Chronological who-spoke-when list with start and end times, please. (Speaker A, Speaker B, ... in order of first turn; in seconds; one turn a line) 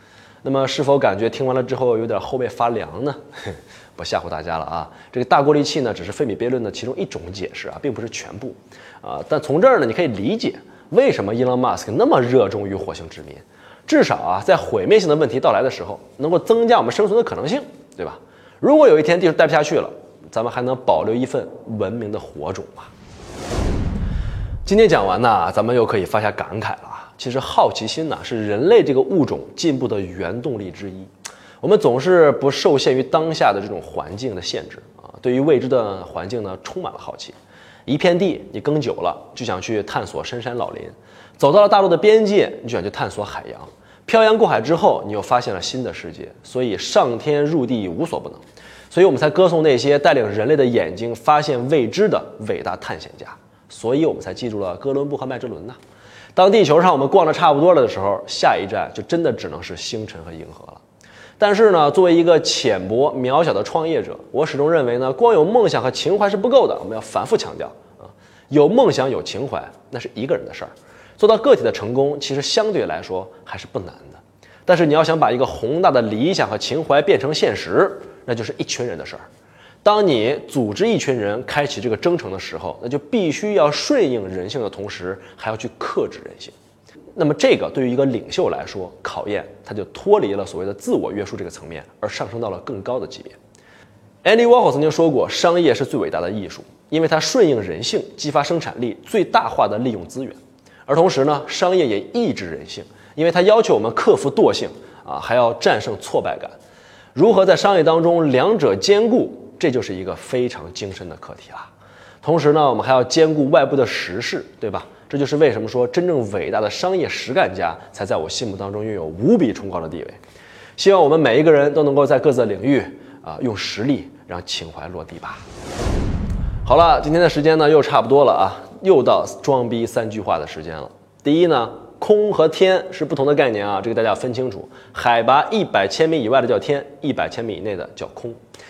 Speaker A: 0.4-22.9
Speaker A: 24.6-55.8
Speaker A: 56.3-60.8
Speaker A: 61.4-79.2
Speaker A: 79.8-86.5
Speaker A: 87.2-93.4
Speaker A: 94.2-106.5
Speaker A: 107.1-111.7
Speaker A: 112.2-120.2
Speaker A: 120.8-125.4
Speaker A: 126.6-138.4